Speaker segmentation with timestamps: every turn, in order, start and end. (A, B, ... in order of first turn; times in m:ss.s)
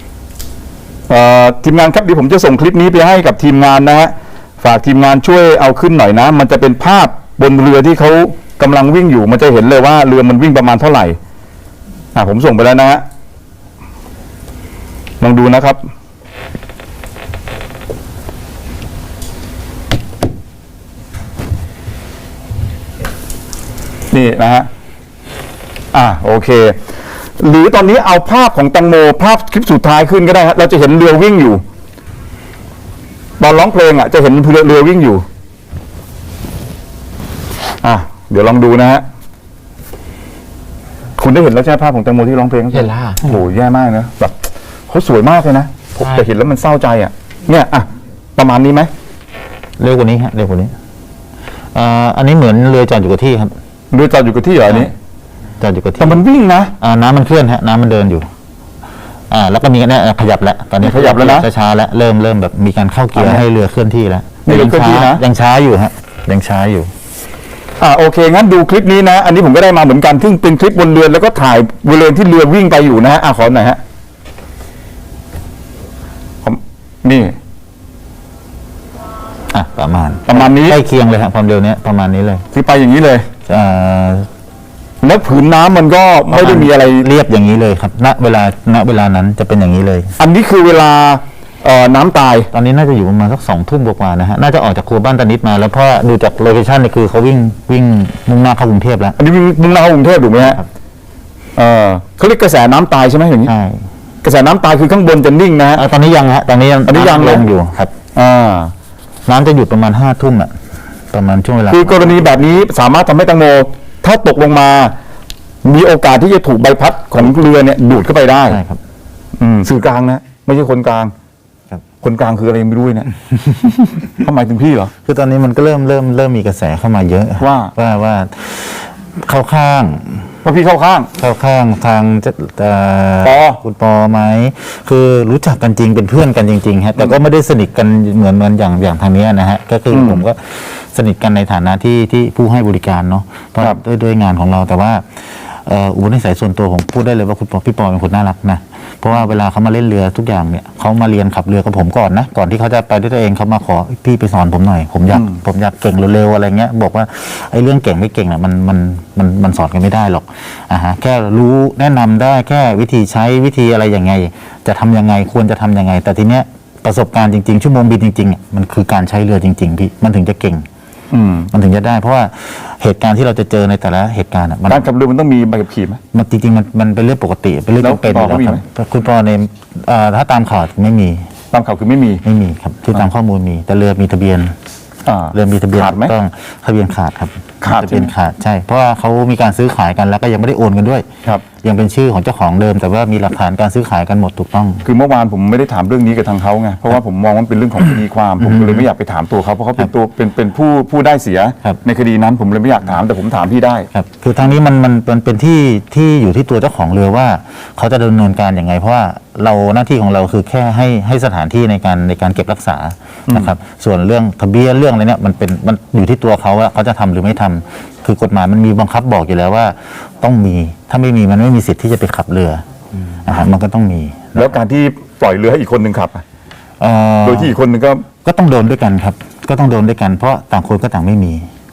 0:01.1-0:11.2 A
0:12.1-0:13.0 A
0:15.2-0:15.8 A
0:24.1-0:24.7 A
0:25.9-0:26.8 A
0:27.4-0:31.6 A
0:33.4-0:35.2 A
0:37.8-0:39.0 A
0:41.2-0:44.3 A
0:44.9-0:48.9 A
0:49.8-0:50.7 B
0:51.7-0:53.5 B
0:53.9-0:54.9 A
0:55.6-0:56.2 B
0:56.0-0:56.7 A
0:56.8-0:58.3 B
0:59.3-1:06.9 B
1:00.8-1:01.5 A
1:03.1-1:03.4 A
1:04.4-1:05.2 A
1:07.8-1:13.8 A
1:16.4-1:17.4 A
1:19.5-1:22.4 B
1:20.3-1:20.8 A
1:22.5-1:23.3 A
1:23.5-1:24.3 B
1:25.0-1:27.1 A
1:26.3-1:30.1 B
1:30.2-1:32.5 A
1:32.5-1:39.2 B
1:39.2-1:40.6 A
1:41.6-1:43.5 A
1:43.4-1:43.8 B
1:44.2-1:45.8 A
1:45.7-1:47.9 B
1:46.9-1:47.5 A
1:48.1-1:48.7 A
1:49.2-1:50.5 B
1:51.1-1:52.3 B
1:51.7-1:54.9 A
1:55.6-1:58.6 A
1:58.5-1:58.8 B
1:59.4-2:01.1 A
2:02.0-2:03.1 A
2:03.5-2:03.8 B
2:04.2-2:04.9 A
2:05.0-2:10.3 B
2:07.4-2:07.7 A
2:10.4-2:11.1 A
2:11.2-2:50.6 B
2:13.2-2:13.6 A
2:19.9-2:20.2 A
2:35.1-2:35.4 A
2:51.1-2:51.5 A
2:51.5-2:54.8 B
2:54.7-2:56.0 A
2:56.1-3:01.2 B
2:57.8-2:58.6 A
3:01.5-3:02.2 A
3:02.2-3:04.5 B
3:05.0-3:06.1 A
3:05.3-3:11.1 B
3:07.6-3:08.1 A
3:11.6-3:14.8 B
3:14.8-3:23.9 A
3:18.4-3:18.8 B
3:23.9-3:42.6 B
3:43.2-3:44.5 B
3:44.4-3:46.2 A
3:46.8-3:47.5 B
3:47.2-3:48.0 A
3:48.2-3:51.5 B